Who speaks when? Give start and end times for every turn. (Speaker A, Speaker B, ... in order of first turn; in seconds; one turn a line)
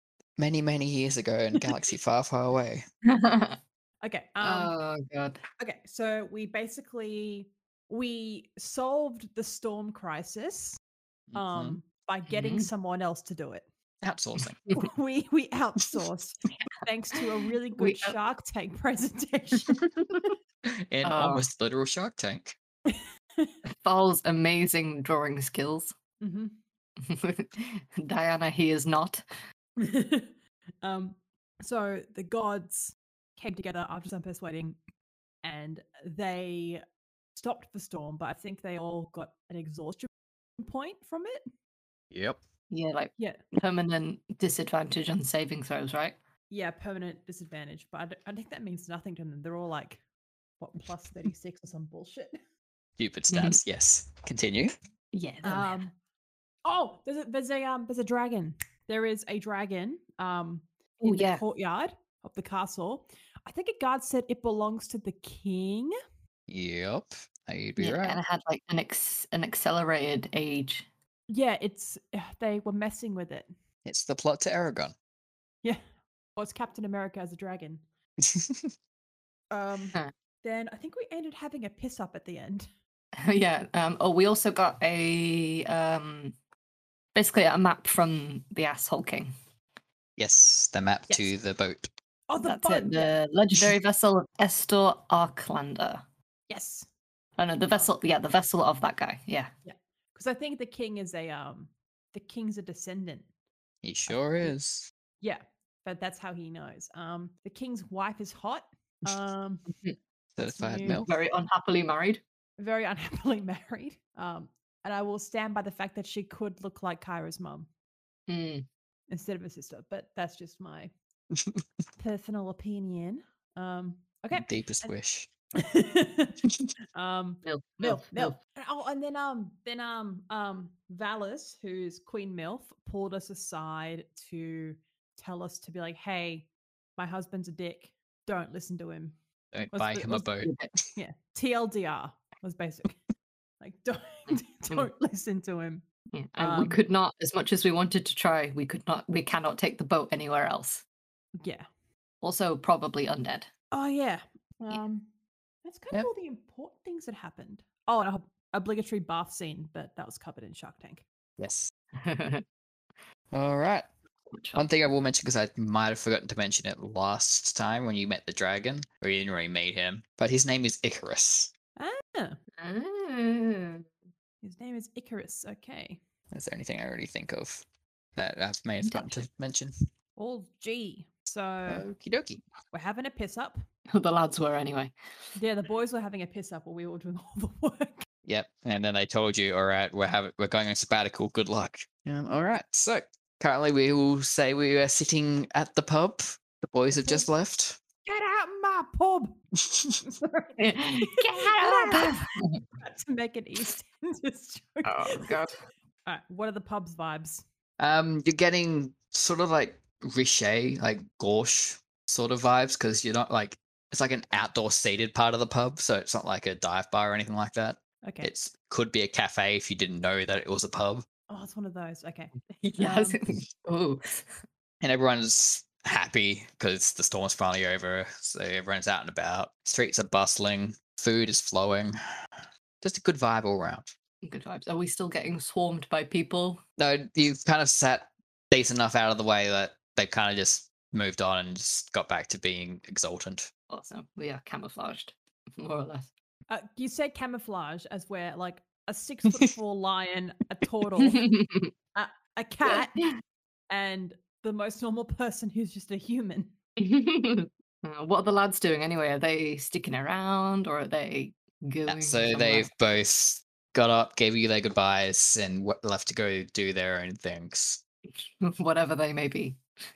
Speaker A: 0.4-2.8
Speaker B: 3.0-3.6
Speaker C: 4.0-4.7
Speaker B: 4.4-5.4
Speaker C: 5.6-10.8
Speaker A: 11.3-11.8
Speaker C: 11.3-13.7
Speaker B: 12.3-12.7
Speaker A: 14.0-14.6
Speaker C: 14.7-20.3
Speaker B: 17.8-18.2
Speaker A: 20.8-22.6
Speaker B: 21.0-21.4
Speaker C: 22.9-23.6
Speaker B: 23.6-26.0
Speaker C: 26.2-26.6
Speaker B: 27.0-29.2
Speaker C: 29.8-34.8
Speaker C: 35.4-36.8
Speaker C: 37.4-41.5
Speaker A: 42.1-42.4
Speaker B: 42.7-46.2
Speaker C: 46.5-50.0
Speaker C: 50.6-52.4
Speaker A: 53.0-54.8
Speaker B: 53.3-53.6
Speaker B: 55.1-55.8
Speaker C: 55.4-55.9
Speaker C: 56.6-65.9
Speaker B: 61.0-61.4
Speaker A: 66.5-68.2
Speaker B: 67.8-70.9
Speaker C: 71.3-73.5
Speaker A: 73.8-75.0
Speaker C: 76.4-77.8
Speaker A: 78.2-78.7
Speaker C: 79.5-82.7
Speaker B: 83.2-86.3
Speaker B: 87.1-89.3
Speaker A: 90.2-91.9
Speaker C: 92.3-93.2
Speaker B: 92.4-96.0
Speaker C: 96.5-96.9
Speaker B: 97.4-99.5
Speaker C: 99.7-103.3
Speaker A: 103.8-104.9
Speaker C: 105.2-109.7
Speaker A: 110.4-111.1
Speaker C: 110.6-111.1
Speaker B: 110.9-112.2
Speaker C: 112.6-117.7
Speaker B: 118.3-118.7
Speaker C: 119.1-120.9
Speaker A: 121.3-121.6
Speaker C: 122.0-124.9
Speaker A: 124.3-125.3
Speaker C: 125.6-126.4
Speaker C: 127.0-139.2
Speaker B: 127.5-128.4
Speaker A: 139.5-140.9
Speaker C: 139.7-140.3
Speaker B: 140.4-140.7
Speaker C: 141.0-143.0
Speaker C: 143.6-145.8
Speaker B: 144.3-144.9
Speaker B: 146.1-150.8
Speaker C: 146.4-146.8
Speaker C: 151.4-151.7
Speaker B: 152.2-153.5
Speaker C: 153.7-155.1
Speaker C: 155.6-161.0
Speaker A: 161.4-161.7
Speaker B: 161.9-162.4
Speaker A: 163.3-163.9
Speaker B: 164.3-164.7
Speaker A: 164.6-171.5
Speaker C: 171.8-172.4
Speaker B: 172.6-173.9
Speaker C: 174.4-176.0
Speaker A: 176.3-177.6
Speaker A: 178.2-179.7
Speaker B: 178.8-179.1
Speaker C: 180.2-181.8
Speaker A: 181.7-182.4
Speaker C: 182.7-183.6
Speaker B: 183.9-184.9
Speaker C: 185.4-188.1
Speaker A: 188.2-197.8
Speaker C: 196.9-197.3
Speaker C: 198.1-199.4
Speaker A: 199.7-200.0
Speaker C: 200.0-202.3
Speaker B: 200.6-202.6
Speaker C: 202.8-205.4
Speaker B: 204.8-205.6
Speaker C: 206.1-207.4
Speaker A: 207.8-221.1
Speaker C: 218.0-218.3
Speaker C: 221.3-223.2
Speaker B: 222.6-224.3
Speaker A: 224.8-233.9
Speaker B: 234.2-236.6
Speaker A: 236.8-243.5
Speaker B: 243.7-246.1
Speaker C: 246.5-251.3
Speaker B: 251.0-251.7
Speaker C: 251.9-253.1
Speaker B: 252.7-253.1
Speaker C: 253.7-256.5
Speaker B: 256.8-262.7
Speaker A: 261.9-267.8
Speaker B: 268.1-269.6